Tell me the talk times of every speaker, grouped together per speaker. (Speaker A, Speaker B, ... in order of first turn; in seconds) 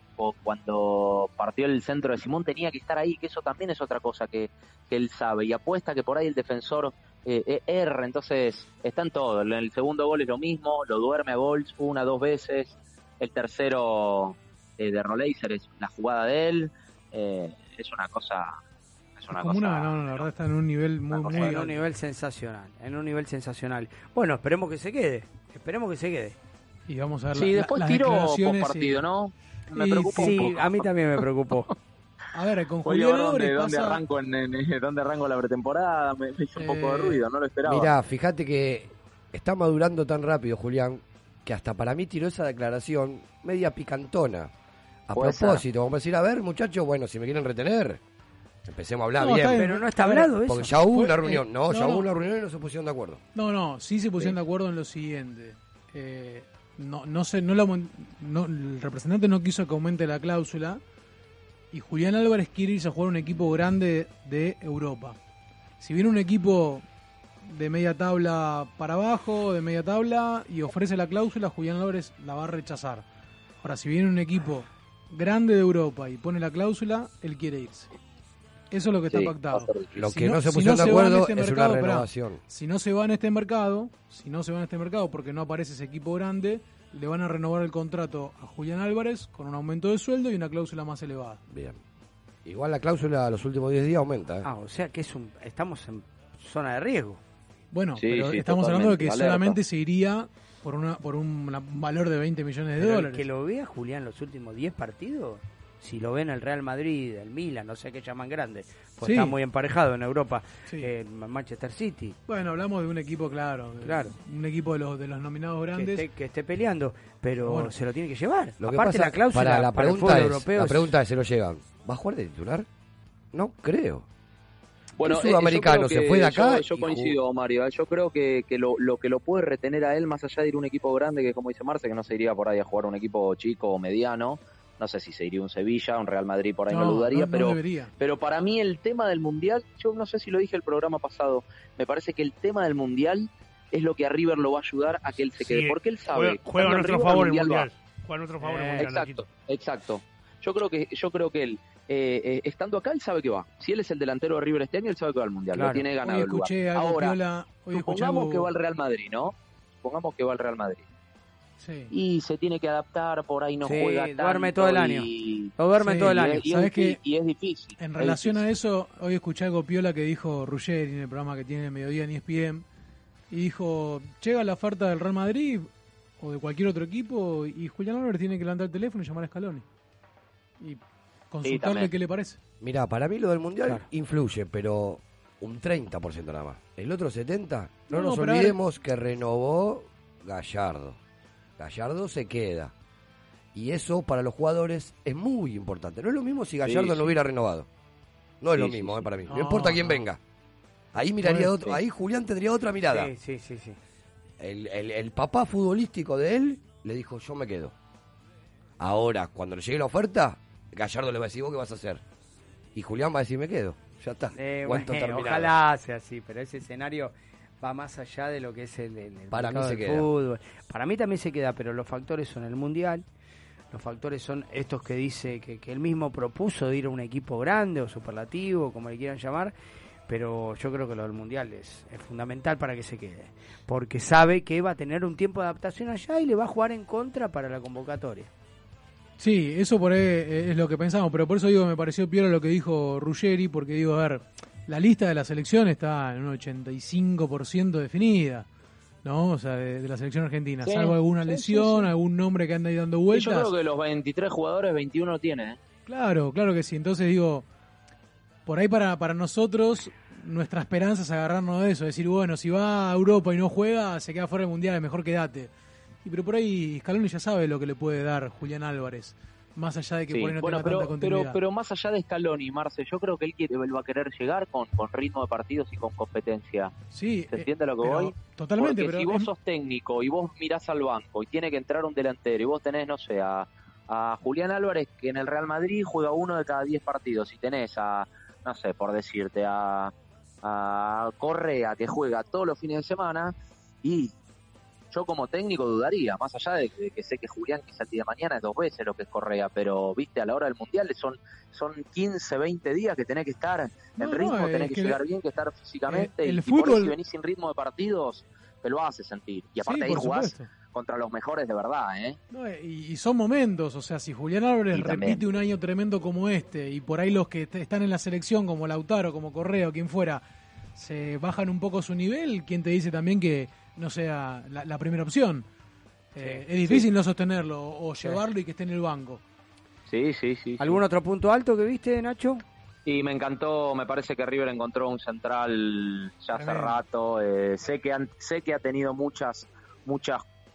Speaker A: 0.2-18.6, 19.2-20.3, 21.1-21.6, 27.3-30.8, 32.8-37.9, 45.1-45.6, 79.1-79.9, 98.0-99.6, 125.0-147.7, 148.8-157.2, 157.7-160.8, 161.9-165.5, 166.1-168.4, 181.4-181.9, 196.6-197.1, 198.5-199.0, 250.6-251.9, 253.1-255.6, 270.1-276.7, 277.3-294.1, 294.9-312.2, 314.7-315.2, 329.9-330.8, 332.9-340.2
Speaker B: 19.3-21.8, 26.9-29.1, 29.7-30.6, 32.3-34.0, 36.5-37.2, 49.2-52.1, 53.3-60.8, 61.7-65.2, 65.8-66.8, 67.4-73.0, 73.6-77.9, 78.7-91.4, 97.7-103.2, 109.0-109.3, 112.3-116.0, 117.4-117.7, 136.7-137.9, 156.0-158.5, 161.6-161.9, 165.8-167.0, 167.8-172.6, 173.3-179.6, 180.6-182.4, 187.9-188.6, 199.3-200.0, 201.2-201.5, 239.2-248.5, 249.0-253.5, 255.9-257.4, 258.4-265.5, 266.0-271.4, 276.9-279.3, 304.0-305.0, 305.9-306.9, 309.6-310.5, 312.3-320.2, 320.8-325.4, 326.1-329.2, 336.3-336.8
Speaker C: 21.3-26.4, 30.2-31.7, 49.5-50.8, 94.4-97.2, 102.8-112.2, 113.8-114.2, 115.7-120.9, 148.4-148.9, 155.5-155.9, 163.6-166.4, 202.9-203.8, 214.3-223.0, 223.7-229.5, 230.1-238.3, 330.6-332.4
Speaker D: 37.6-44.5, 45.1-48.0, 48.6-49.6, 50.5-53.2, 79.9-82.4, 91.5-91.8, 92.4-94.5, 118.6-122.7, 123.3-124.1, 125.0-127.2, 182.6-191.0, 191.6-192.7, 193.5-197.7, 198.4-200.2, 200.9-203.1, 204.4-207.7, 208.8-212.0, 212.7-215.5, 219.3-220.1
Speaker E: 145.4-149.3